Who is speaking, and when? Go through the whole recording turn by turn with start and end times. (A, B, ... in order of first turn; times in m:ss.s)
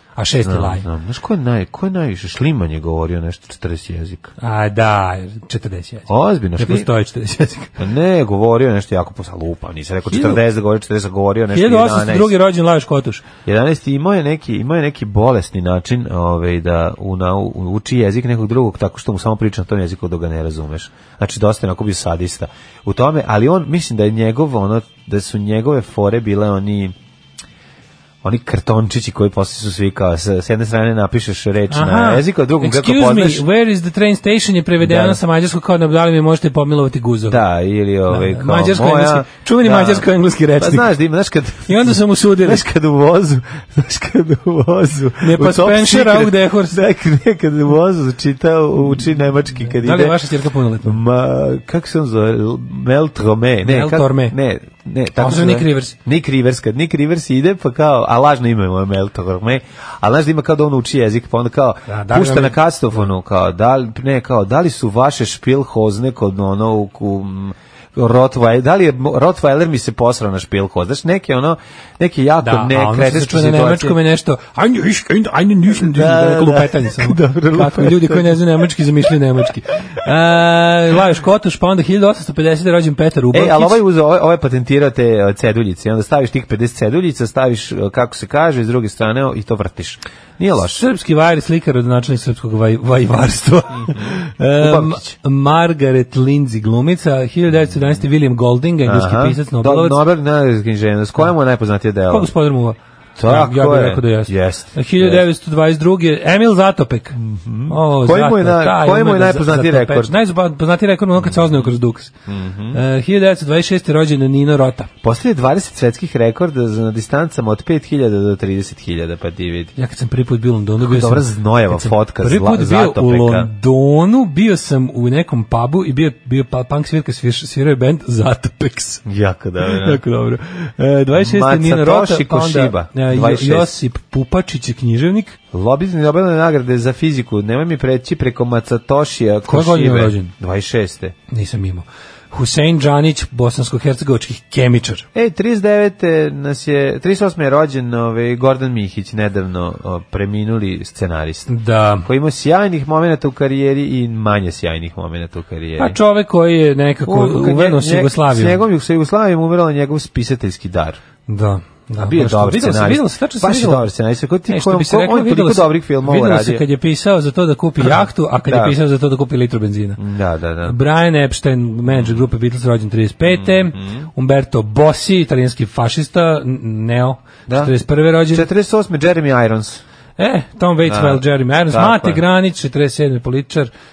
0:00.2-0:00.8 A
0:00.4-0:04.3 B
0:04.4-0:07.7 A
0:06.1-0:06.9 B
0:07.8-0:12.4 B
0:10.1-0:10.4 A
0:11.5-0:13.2 A
0:13.4-0:26.9 B
0:28.2-0:33.4 B
0:31.7-0:37.4 A
0:34.8-0:35.2 B
0:37.3-0:50.2 B
0:38.1-0:40.9 A
0:41.7-0:42.6 A
0:45.2-0:46.8 A
0:49.7-0:51.0 A
0:50.8-1:14.0 B
0:53.6-0:54.4 A
0:55.2-0:55.9 A
1:01.9-1:03.0 A
1:12.4-1:23.8 A
1:15.7-1:18.4 B
1:23.3-1:30.8 B
1:30.8-1:40.0 A
1:33.7-1:35.1 B
1:38.8-1:42.3 B
1:42.1-1:47.2 A
1:43.2-1:45.2 B
1:47.1-1:50.1 B
1:47.7-1:52.1 A
1:51.2-1:51.6 B
1:52.3-1:52.8 B
1:52.7-1:54.9 A
1:55.0-1:59.7 B
1:59.8-2:09.0 A
2:00.8-2:03.5 B
2:09.0-2:10.0 B
2:09.6-2:15.4 A
2:11.2-2:13.7 B
2:15.5-2:21.1 B
2:19.5-2:20.3 A
2:21.3-2:25.1 A
2:25.1-2:31.5 B
2:31.5-2:32.1 A
2:32.0-2:36.0 B
2:35.8-2:38.6 A
2:37.0-2:41.0 B
2:41.3-2:43.9 A
2:42.0-2:46.6 B
2:44.5-2:50.0 A
2:47.8-2:48.8 B
2:50.0-2:50.8 B
2:50.6-2:58.5 A
2:51.9-2:52.2 B
2:53.2-2:54.1 B
2:57.5-2:59.8 B
3:00.2-3:03.7 A
3:00.8-3:02.2 B